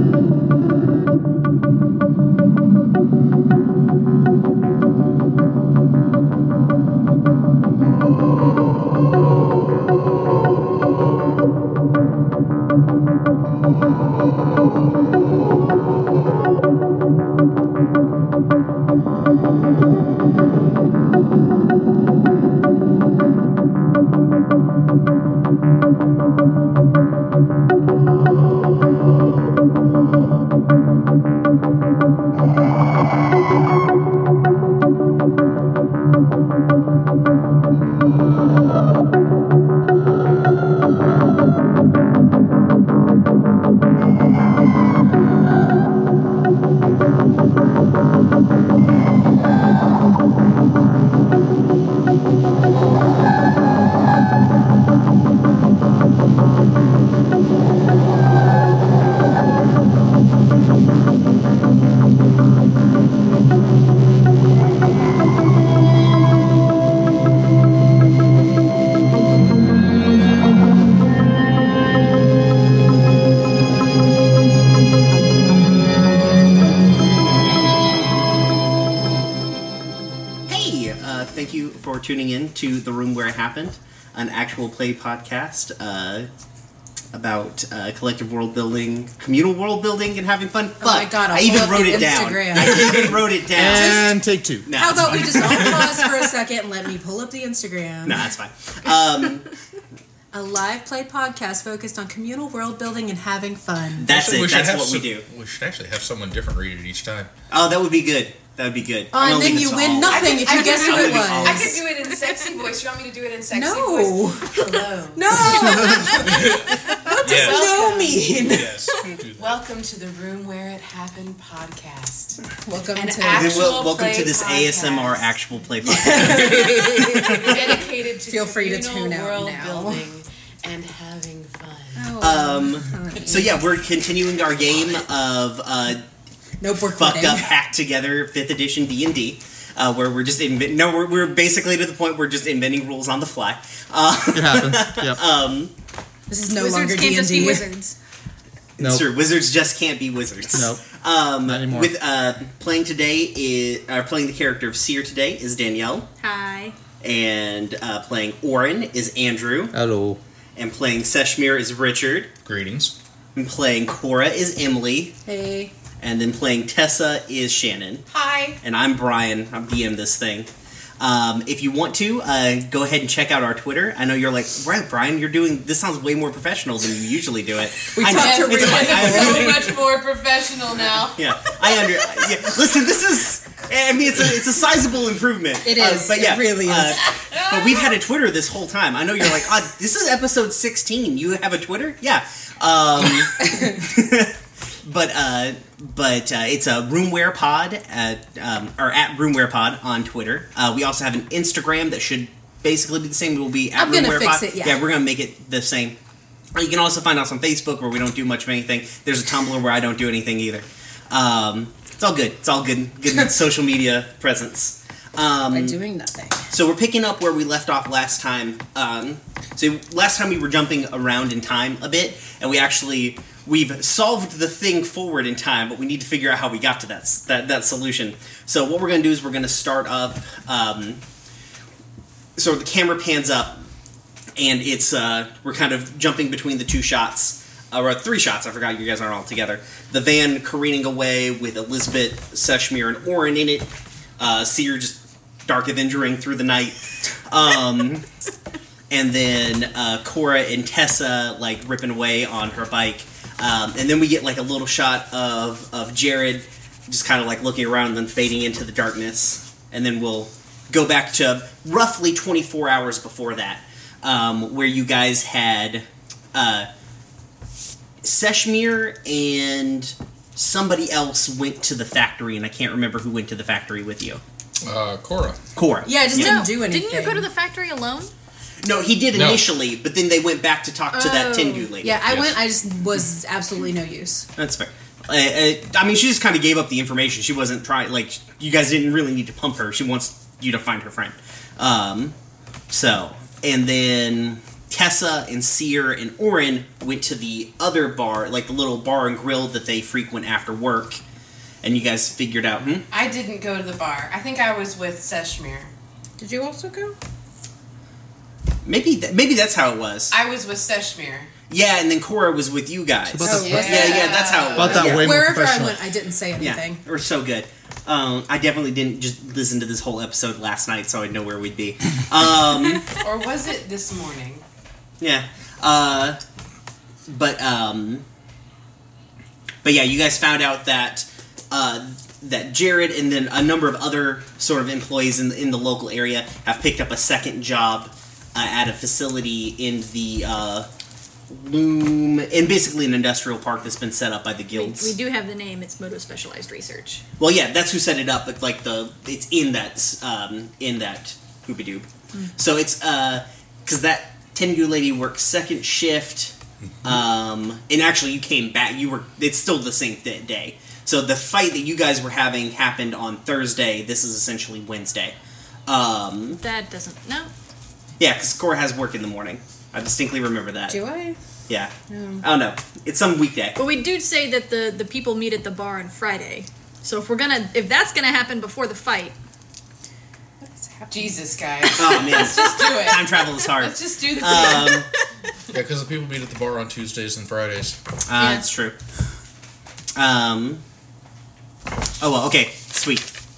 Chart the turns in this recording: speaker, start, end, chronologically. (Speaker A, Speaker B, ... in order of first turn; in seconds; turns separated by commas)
Speaker A: 80.5-86.3, Speaker A: 87.1-96.0, Speaker B: 90.8-94.2, Speaker C: 93.5-94.7, Speaker B: 94.7-98.2, Speaker D: 95.1-95.5, Speaker A: 98.0-99.5, Speaker B: 100.3-104.1, Speaker A: 104.0-105.2, Speaker D: 104.0-107.3, Speaker A: 107.5-111.8, Speaker B: 109.1-111.8, Speaker E: 110.0-116.3, Speaker B: 113.5-118.8, Speaker F: 115.4-116.3, Speaker D: 116.2-119.5, Speaker E: 117.0-118.3, Speaker E: 119.4-122.4, Speaker B: 122.6-123.7, Speaker E: 122.9-125.3, Speaker A: 123.3-126.7, Speaker B: 125.8-127.6, Speaker E: 127.1-132.1, Speaker A: 127.3-127.5, Speaker B: 128.2-130.0, Speaker B: 131.9-133.7, Speaker A: 132.2-136.0, Speaker B: 136.6-137.5, Speaker A: 136.9-145.7, Speaker C: 144.3-145.2, Speaker B: 146.3-147.7, Speaker F: 146.5-147.9, Speaker A: 148.8-156.1, Speaker C: 148.8-149.1, Speaker C: 150.5-150.8, Speaker C: 151.4-151.9, Speaker F: 156.2-156.8, Speaker A: 157.0-159.7, Speaker C: 159.7-160.2, Speaker A: 160.6-162.3, Speaker D: 162.4-162.9, Speaker A: 163.3-165.1, Speaker B: 165.2-165.7, Speaker A: 166.0-168.1, Speaker E: 168.1-168.6, Speaker A: 168.6-179.8, Speaker B: 177.9-179.7, Speaker E: 178.0-181.3, Speaker A: 181.1-205.9, Speaker B: 185.6-187.1, Speaker B: 203.7-204.8, Speaker A: 206.5-215.8, Speaker B: 215.5-216.4, Speaker A: 216.5-231.0, Speaker A: 232.4-233.6, Speaker A: 234.3-248.1, Speaker A: 248.9-266.7, Speaker A: 268.0-274.2, Speaker D: 274.6-275.4, Speaker A: 275.5-276.3, Speaker B: 275.8-277.2, Speaker F: 276.1-278.1, Speaker A: 278.6-282.0, Speaker D: 279.1-279.5, Speaker F: 280.9-281.7, Speaker B: 281.8-284.3, Speaker D: 282.0-282.4, Speaker A: 284.4-292.1, Speaker A: 292.7-301.0, Speaker A: 301.6-302.9, Speaker E: 302.9-305.7, Speaker B: 306.2-306.9, Speaker A: 308.6-310.1, Speaker E: 310.1-311.3, Speaker A: 311.5-315.4, Speaker C: 313.1-313.9, Speaker B: 313.2-314.1, Speaker E: 313.3-315.0, Speaker C: 314.5-315.8, Speaker B: 314.7-316.8, Speaker A: 316.4-322.9, Speaker E: 322.9-324.4, Speaker A: 325.0-326.2, Speaker A: 327.1-328.0, Speaker A: 329.6-340.7, Speaker A: 341.3-344.9, Speaker F: 344.5-347.0, Speaker A: 347.2-365.1, Speaker A: 365.7-366.4, Speaker F: 366.4-367.3, Speaker A: 368.0-370.8, Speaker B: 370.7-371.2, Speaker A: 371.5-373.6, Speaker B: 371.9-372.2, Speaker F: 373.6-379.1, Speaker B: 380.4-381.2, Speaker E: 380.9-384.8, Speaker A: 381.8-384.9, Speaker B: 382.0-382.4, Speaker D: 385.5-387.8, Speaker A: 388.1-388.8, Speaker F: 388.2-388.4, Speaker A: 389.9-390.6, Speaker A: 392.0-393.1